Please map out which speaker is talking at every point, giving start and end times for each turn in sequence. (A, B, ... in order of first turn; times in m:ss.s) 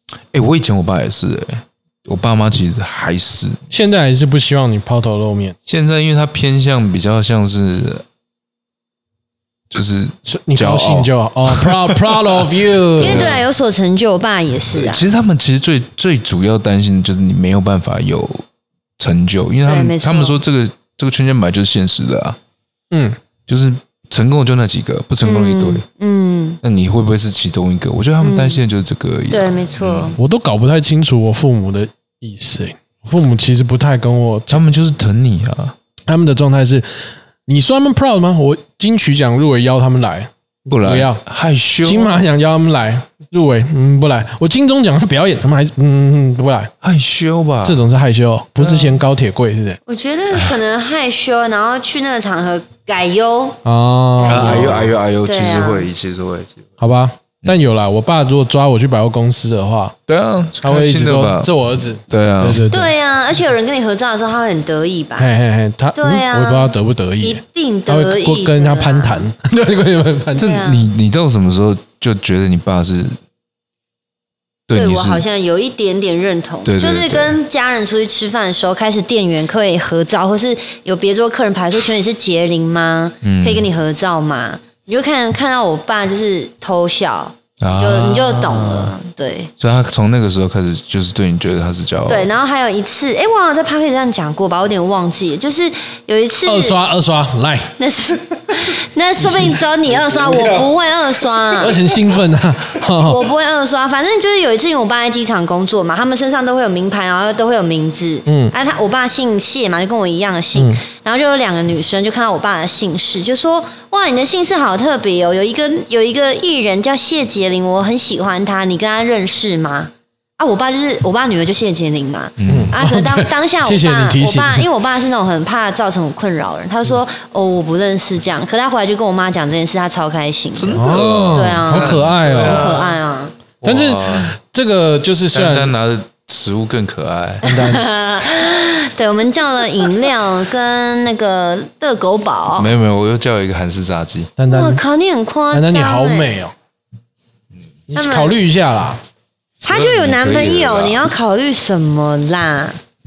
0:00.3-0:03.6 A
0:03.7-0:05.6 B
0:05.7-0:08.0 A
0:09.7-0:12.5 A
0:10.3-0:13.4 B
0:13.0-0:13.4 A
0:13.0-0:15.0 C
0:14.7-0:18.4 A
0:19.0-0:22.4 A
0:19.7-0:20.4 C
0:22.9-0:23.2 B
0:23.5-0:25.8 A
0:25.2-0:26.6 C
0:26.6-0:30.2 A
0:28.2-0:28.6 C
0:29.3-0:30.2 C
0:30.2-0:34.6 B
0:34.5-0:35.8 A
0:36.1-0:41.2 B
0:40.7-0:42.3 A
0:41.8-0:46.7 B
0:46.8-0:47.8 A
0:47.6-0:49.8 B
0:48.6-0:49.0 A
0:49.9-0:53.6 C
0:53.6-0:54.9 B
0:54.2-0:56.7 A
0:54.3-0:55.9 C
0:56.8-1:00.0 B
1:00.1-1:01.6 A
1:00.6-1:02.9 B
1:02.1-1:02.6 A
1:02.7-1:05.3 C
1:05.2-1:10.5 B
1:06.0-1:09.3 C
1:10.4-1:10.8 C
1:10.4-1:13.2 A
1:14.7-1:15.2 A
1:14.7-1:29.5 C
1:16.6-1:17.4 A
1:23.2-1:23.7 A
1:27.6-1:28.9 A
1:29.6-1:32.3 A
1:32.1-1:36.8 C
1:36.4-1:37.7 B
1:37.8-1:41.8 C
1:39.9-1:40.7 A
1:41.6-1:43.2 B
1:43.0-2:13.4 C
1:48.3-1:48.5 B
1:50.6-1:50.8 B
2:02.4-2:02.8 A
2:02.5-2:04.7 B
2:10.5-2:13.0 A
2:10.7-2:12.8 B
2:13.6-2:14.4 A
2:13.6-2:15.7 B
2:15.3-2:17.5 A
2:17.4-2:17.9 B
2:17.5-2:22.7 C
2:22.6-2:24.3 A
2:24.4-2:24.8 B
2:24.5-2:26.3 C
2:25.5-2:26.5 B
2:27.9-2:29.0 B
2:27.9-2:28.4 C
2:29.6-2:32.8 C
2:29.6-2:31.1 A